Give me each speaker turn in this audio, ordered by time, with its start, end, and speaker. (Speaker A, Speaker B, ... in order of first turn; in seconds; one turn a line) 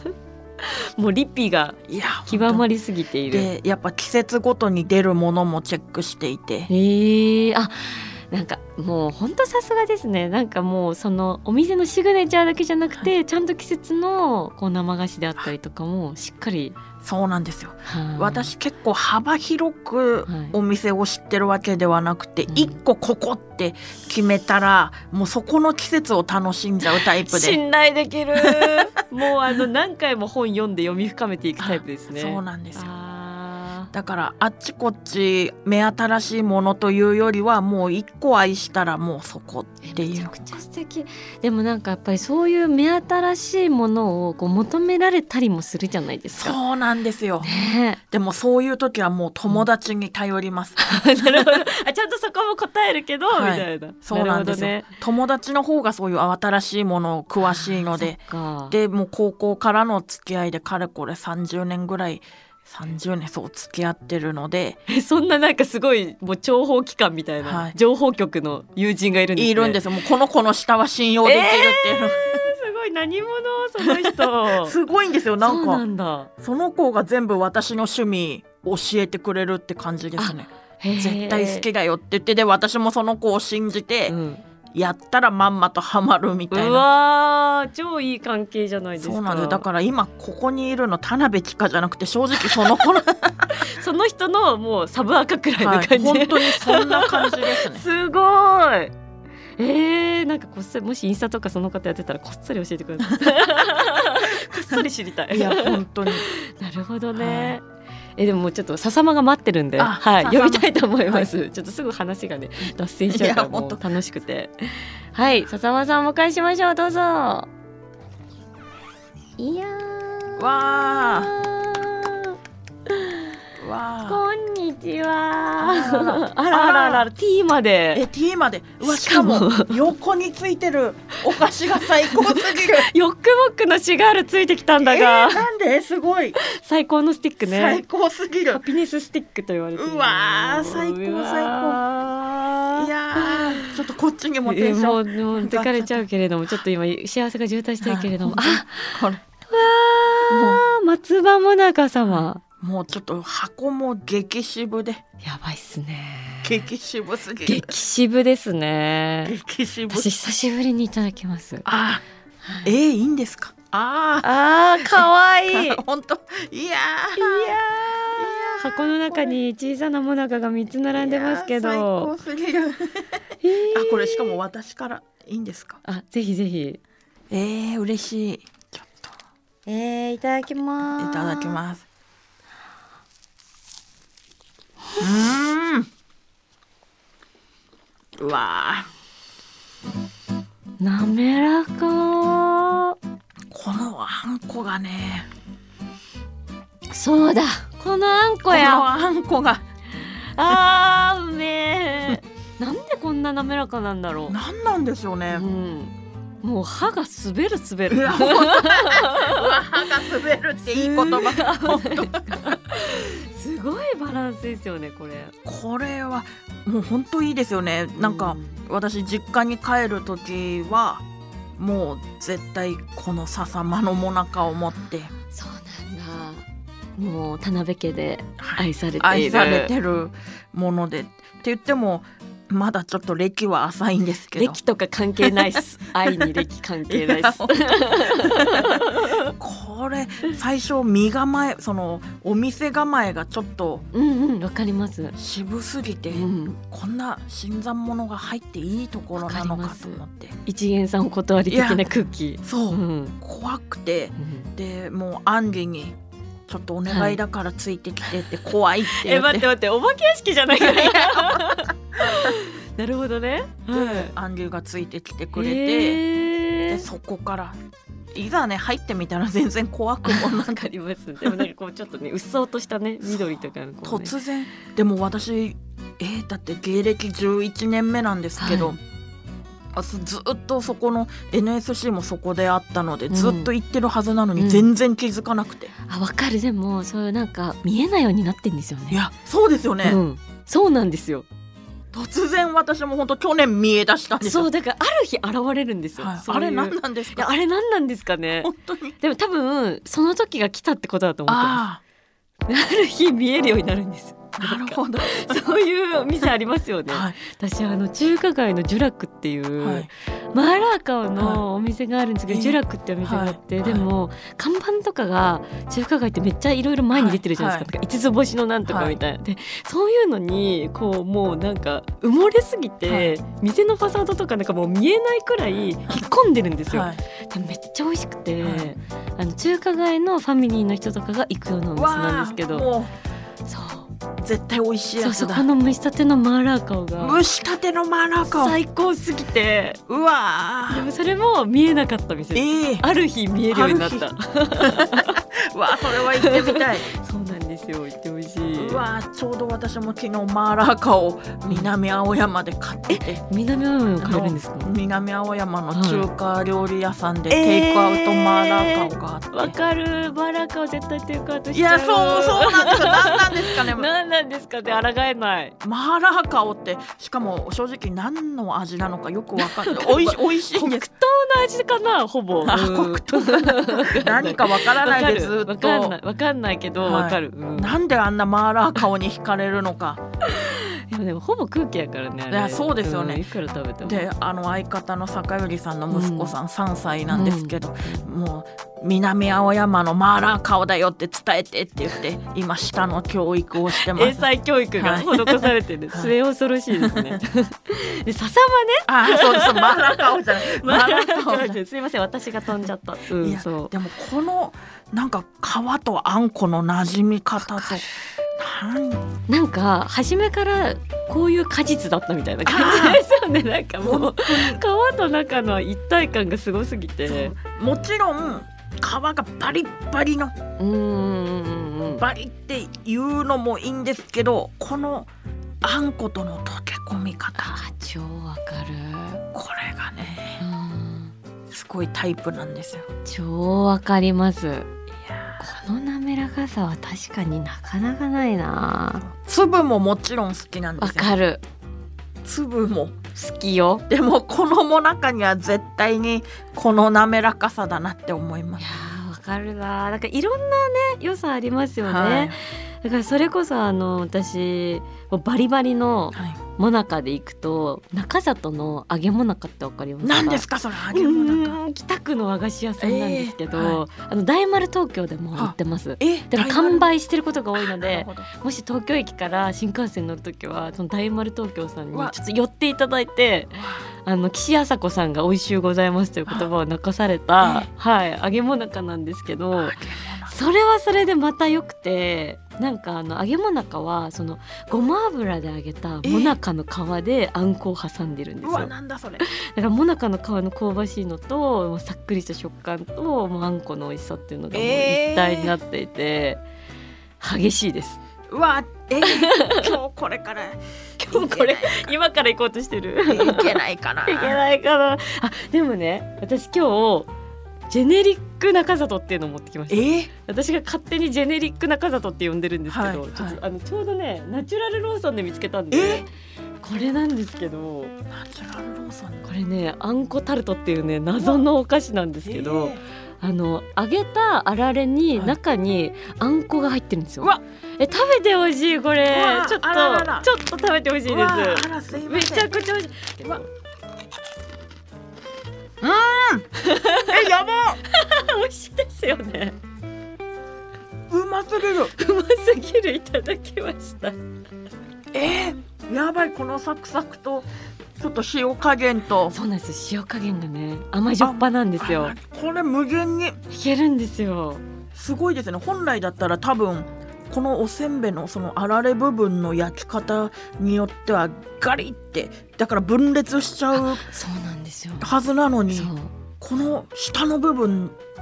Speaker A: 0.1-3.5
Speaker B: 1.9-2.7
Speaker B: 3.3-6.7
Speaker A: 6.7-16.8
Speaker B: 17.0-27.6
Speaker A: 17.9-18.5
Speaker A: 20.3-20.6
Speaker A: 22.5-22.7
Speaker A: 27.0-33.9
Speaker B: 28.4-28.8
Speaker B: 31.6-32.9
Speaker B: 33.9-40.4
Speaker A: 39.8-46.6
Speaker B: 46.3-51.6
Speaker A: 47.4-48.0
Speaker A: 50.8-54.9
Speaker B: 53.3-64.8
Speaker A: 57.5-58.7
Speaker A: 64.9-69.8
Speaker B: 67.4-67.7
Speaker B: 69.3-72.4
Speaker A: 71.2-74.8
Speaker B: 73.8-75.8
Speaker A: 75.4-76.3
Speaker B: 76.4-84.1
Speaker A: 80.2-81.6
Speaker A: 84.1-84.4
Speaker B: 84.7-86.8
Speaker A: 86.5-89.6
Speaker B: 89.0-93.7
Speaker A: 93.6-98.9
Speaker B: 95.6-97.8
Speaker A: 99.6-107.6
Speaker B: 105.3-106.3
Speaker B: 107.1-107.6
Speaker A: 108.2-117.5
Speaker B: 109.8-111.3
Speaker B: 113.1-113.8
Speaker A: 119.4-120.5
Speaker B: 120.4-121.3
Speaker A: 121.0-122.3
Speaker A: 122.9-123.3
Speaker B: 123.6-124.2
Speaker A: 124.1-128.0
Speaker B: 125.6-127.1
Speaker B: 127.9-132.9
Speaker A: 128.8-129.9
Speaker A: 131.9-135.4
Speaker B: 134.8-136.4
Speaker A: 136.4-137.8
Speaker B: 137.4-138.6
Speaker A: 138.5-143.8
Speaker B: 139.7-141.8
Speaker B: 142.7-146.0
Speaker A: 144.4-152.4
Speaker B: 147.8-149.2
Speaker B: 150.2-150.6
Speaker B: 152.1-155.0
Speaker A: 155.2-156.6
Speaker B: 156.4-157.7
Speaker A: 157.4-159.3
Speaker B: 159.2-160.2
Speaker A: 159.9-161.6
Speaker B: 161.6-162.0
Speaker A: 162.4-162.7
Speaker B: 162.6-169.4
Speaker A: 164.2-165.8
Speaker A: 167.2-167.6
Speaker A: 168.6-172.1
Speaker B: 170.9-175.8
Speaker A: 173.4-174.4
Speaker A: 175.8-176.8
Speaker B: 177.3-179.1
Speaker A: 179.7-181.6
Speaker B: 181.0-181.8
Speaker B: 185.0-185.9
Speaker B: 188.2-188.9
Speaker A: 190.8-192.9
Speaker B: 193.5-195.3
Speaker A: 196.9-198.9
Speaker B: 198.5-199.6
Speaker A: 200.3-204.4
Speaker B: 204.3-205.4
Speaker A: 205.3-209.6
Speaker B: 207.9-212.6
Speaker A: 210.6-215.3
Speaker B: 215.4-221.0
Speaker A: 218.0-218.6
Speaker B: 221.6-225.1
Speaker A: 225.2-226.4
Speaker A: 227.0-229.7
Speaker B: 228.4-234.6
Speaker A: 234.3-239.3
Speaker B: 235.2-243.8
Speaker A: 243.9-245.2
Speaker B: 245.2-250.3
Speaker A: 246.1-246.6
Speaker A: 249.2-253.2
Speaker B: 251.5-251.8
Speaker B: 252.4-255.9
Speaker A: 254.2-254.5
Speaker B: 256.5-259.5
Speaker A: 256.9-257.2
Speaker A: 258.9-264.1
Speaker B: 260.6-262.3
Speaker B: 263.7-266.0
Speaker A: 265.4-266.8
Speaker B: 266.7-267.6
Speaker B: 268.1-270.6
Speaker A: 270.0-274.1
Speaker B: 271.2-271.5
Speaker B: 273.8-278.8
Speaker A: 278.4-278.8
Speaker B: 279.7-285.7
Speaker A: 283.1-283.5
Speaker A: 284.4-284.7
Speaker A: 285.9-289.0
Speaker B: 288.9-290.0
Speaker A: 289.8-291.2
Speaker B: 291.9-294.5
Speaker A: 294.2-301.6
Speaker B: 296.0-297.3
Speaker B: 298.4-299.0
Speaker B: 301.3-301.8
Speaker A: 302.5-332.7
Speaker B: 304.4-305.4
Speaker B: 306.9-307.1
Speaker B: 309.6-309.9
Speaker B: 311.2-311.4
Speaker B: 312.3-313.9
Speaker B: 316.9-317.7
Speaker B: 318.7-319.0
Speaker B: 322.9-323.1
Speaker B: 326.7-327.0
Speaker B: 328.4-328.7
Speaker B: 331.7-332.9
Speaker A: 333.4-333.9
Speaker B: 334.2-335.5
Speaker A: 335.0-337.2
Speaker B: 337.0-338.6
Speaker A: 338.3-339.8
Speaker B: 339.9-340.9
Speaker A: 340.7-345.2
Speaker B: 342.3-342.9
Speaker B: 343.5-346.9
Speaker A: 346.0-348.8
Speaker B: 348.6-353.2
Speaker A: 352.9-354.7
Speaker B: 354.0-359.5
Speaker A: 355.7-356.1
Speaker A: 357.3-365.5
Speaker B: 361.5-363.9
Speaker B: 365.6-370.9
Speaker A: 369.4-377.7
Speaker B: 372.4-376.0
Speaker B: 376.8-380.0
Speaker A: 380.2-384.1
Speaker B: 382.3-383.2
Speaker B: 383.8-394.2
Speaker A: 385.9-386.3
Speaker A: 387.1-388.0
Speaker A: 393.8-403.7
Speaker B: 394.8-396.1
Speaker B: 396.7-397.2
Speaker B: 398.9-401.6
Speaker B: 403.2-409.1
Speaker A: 407.4-407.9
Speaker A: 409.3-417.4
Speaker B: 412.4-413.0
Speaker B: 413.8-414.6
Speaker B: 417.1-420.3
Speaker A: 420.6-422.0
Speaker B: 421.9-425.1
Speaker B: 425.6-427.6
Speaker A: 427.4-429.2
Speaker B: 429.3-430.4
Speaker A: 430.4-431.1
Speaker B: 431.5-432.9
Speaker A: 433.1-434.7
Speaker B: 435.0-435.4
Speaker A: 435.4-439.1
Speaker B: 439.0-441.1
Speaker A: 440.8-441.4
Speaker B: 442.2-443.0
Speaker A: 443.1-443.8
Speaker B: 443.9-448.6
Speaker A: 448.6-496.4
Speaker B: 451.8-452.4
Speaker B: 456.1-456.4
Speaker B: 460.0-461.6
Speaker B: 462.8-463.8
Speaker B: 465.3-466.9
Speaker B: 467.6-468.3
Speaker B: 473.5-473.9
Speaker B: 477.4-477.7
Speaker B: 479.5-480.4
Speaker B: 486.0-486.4
Speaker B: 488.4-489.2
Speaker B: 494.5-495.6
Speaker A: 497.2-498.0
Speaker B: 498.3-501.9
Speaker A: 499.0-499.7
Speaker A: 501.0-507.1
Speaker B: 503.1-504.4
Speaker A: 507.7-516.1
Speaker B: 509.7-510.1
Speaker B: 512.7-513.4
Speaker B: 515.7-516.0
Speaker A: 516.6-517.9
Speaker B: 518.1-519.2
Speaker A: 519.2-533.5
Speaker B: 521.1-521.5
Speaker B: 522.2-522.8
Speaker B: 529.1-530.3
Speaker B: 531.0-532.6
Speaker B: 535.8-536.5
Speaker A: 536.6-537.2
Speaker B: 537.0-537.8
Speaker A: 537.9-539.5
Speaker B: 541.1-541.9
Speaker A: 541.9-544.1
Speaker B: 545.1-549.3
Speaker A: 549.3-552.1
Speaker B: 551.2-553.4
Speaker A: 553.5-554.6
Speaker B: 554.9-564.1
Speaker A: 563.8-565.1
Speaker B: 565.0-568.0
Speaker A: 565.7-566.1